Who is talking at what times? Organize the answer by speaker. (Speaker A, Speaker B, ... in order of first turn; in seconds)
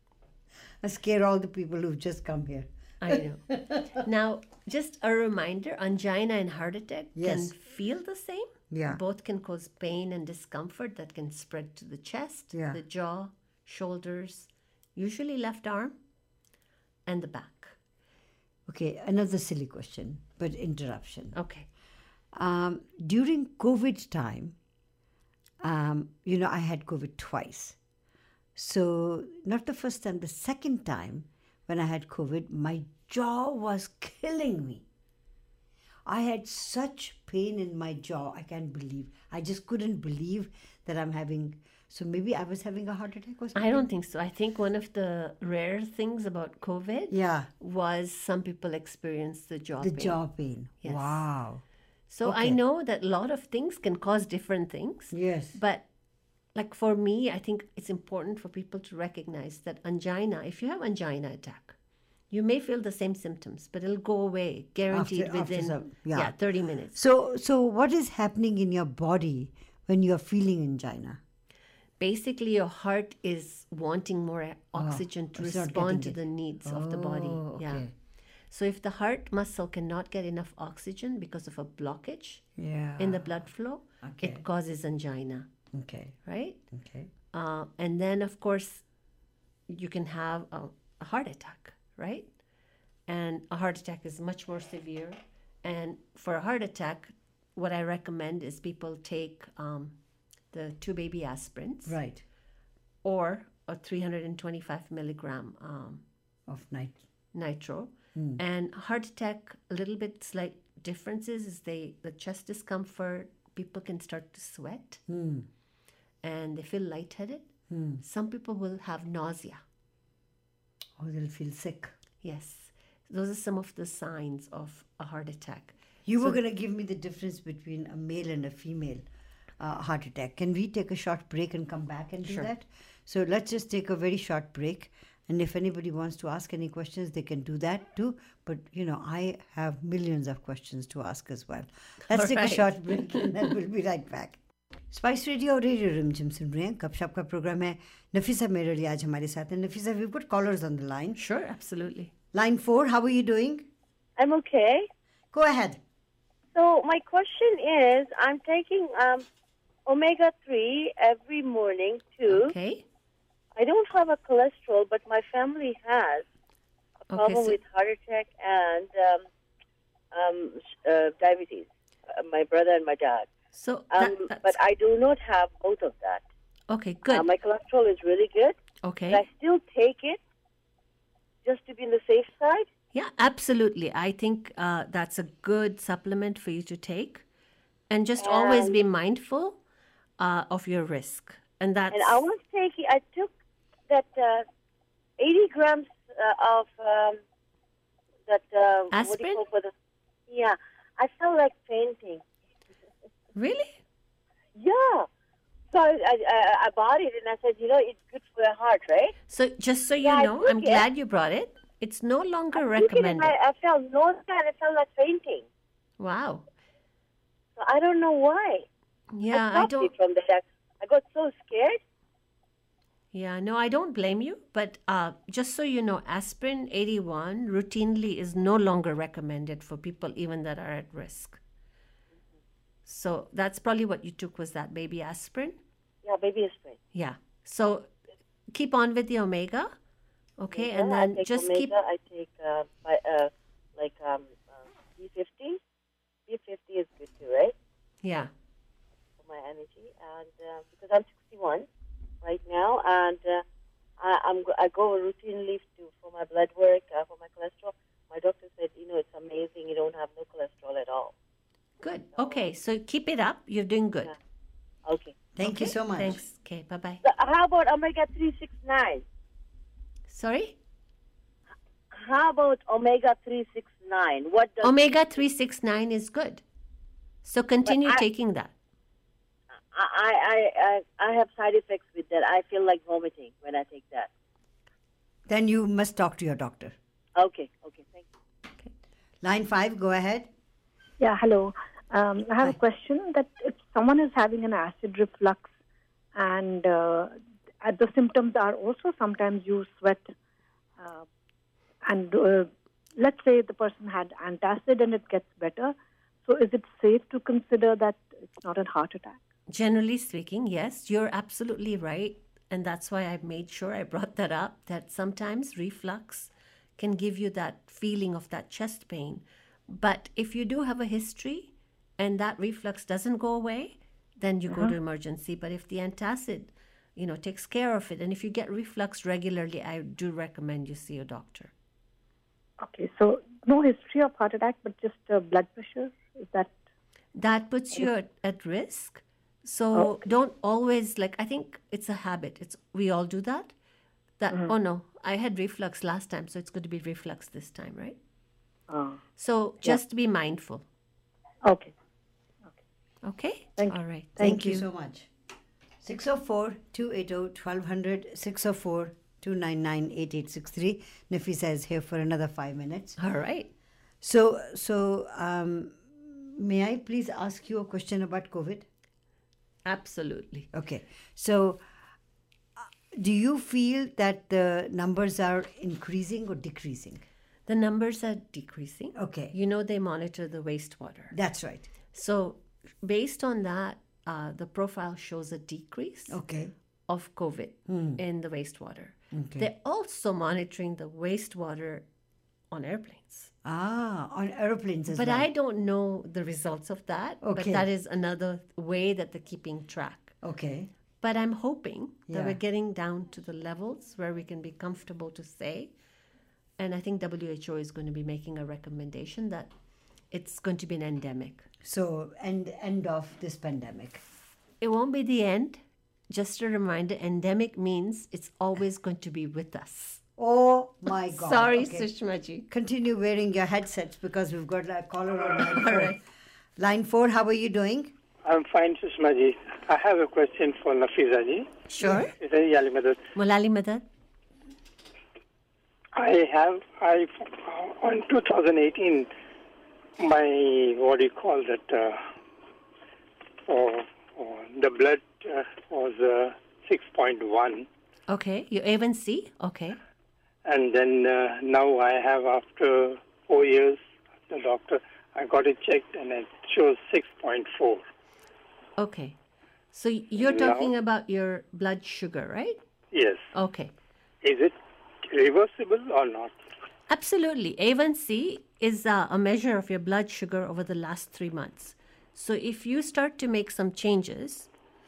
Speaker A: 0.8-3.9, 7.2-7.5, 8.7-9.0, 12.5-12.8, 18.7-21.4, 22.3-24.6, 25.6-27.8, 28.6-34.8, 36.1-43.8, 47.1-47.5, 49.8-51.6, 52.2-52.6, 55.1-55.6, 64.9-66.4, 66.9-71.2, 74.8-77.9, 82.6-83.3, 84.0-84.5, 85.7-86.2, 86.7-87.1, 101.9-102.2, 106.5-107.0, 108.2-108.4, 115.1-115.5, 117.7-118.0, 121.0-121.9, 126.1-129.0, 129.6-144.4, 144.9-151.2, 152.3-153.7, 155.3-155.8, 265.4-266.2, 285.3-286.8, 289.2-290.3, 354.2-355.1, 355.8-363.0, 364.0-368.7, 370.5-371.6, 372.6-377.0, 378.9-379.3, 381.1-381.7, 386.1-386.5, 387.7-388.0, 389.1-389.5, 393.4-395.3, 397.2-397.7, 400.2-400.7, 402.1-402.4, 411.6-414.0, 420.2-421.9, 422.5-426.0, 426.6-427.9, 431.8-432.1
Speaker B: 3.0-16.0, 17.1-17.8, 21.4-21.7, 43.5-50.2, 50.8-51.2, 52.1-55.9, 56.5-61.8, 62.3-67.0, 72.0-77.9, 78.5-82.5, 83.0-85.5, 86.2-86.6, 87.3-88.8, 89.7-92.3, 93.1-100.0, 100.5-102.0, 103.0-106.0, 107.3-115.0, 116.2-119.6, 122.2-126.4, 142.1-143.5, 151.2-152.1, 162.3-162.8, 167.1-167.6, 173.5-174.6, 176.7-177.3, 178.8-179.2, 182.9-187.2, 187.9-189.6, 190.2-192.3, 198.9-199.4, 203.3-203.8, 209.3-213.3, 216.0-216.4, 219.1-219.9, 223.1-231.4, 232.9-235.6, 236.9-237.9, 238.5-239.7, 240.4-241.7, 248.0-248.3, 261.8-264.1, 265.4-267.0, 270.1-270.6, 274.6-276.4, 277.2-278.5, 309.5-331.5, 337.1-343.5, 344.2-348.0, 349.2-350.6, 353.0-354.6, 363.0-363.5, 369.6-370.5, 377.5-381.1, 381.9-386.2, 386.9-391.9, 392.5-393.3, 394.9-400.2, 401.0-405.7, 406.6-409.5, 410.1-411.5, 414.6-420.0, 421.1-422.5, 425.4-426.0, 431.7-432.1, 433.1-433.8, 448.1-449.8, 458.8-459.2, 459.7-462.6, 463.3-463.7, 466.9-474.5
Speaker C: 154.2-154.9, 156.6-159.3, 159.9-162.5, 163.6-166.2, 167.1-169.2, 170.1-173.3, 173.9-176.2, 177.1-178.6, 179.1-180.2, 181.4-182.7, 188.2-188.8, 191.9-193.3, 193.9-194.4, 195.2-197.2, 198.3-199.7, 200.3-202.2, 204.6-205.1, 205.7-209.2, 210.0-210.8, 212.6-215.5, 217.6-218.7, 219.3-221.8, 236.0-236.8, 240.5-245.6, 246.3-247.5, 249.2-251.7, 252.2-253.4, 254.0-261.1, 264.9-265.1, 267.0-269.0, 271.9-275.1, 277.7-278.0, 279.7-284.1, 287.2-288.1
Speaker D: 291.0-295.5, 296.2-300.1, 300.8-301.1, 301.8-309.2, 332.6-336.5, 339.7-340.1, 348.7-349.0, 351.4-351.7, 353.6-354.4
Speaker E: 428.2-431.6, 432.1-433.0, 435.9-439.1, 440.0-442.0, 443.5-447.7, 450.4-457.8, 460.2-460.7, 462.9-463.3, 464.2-466.4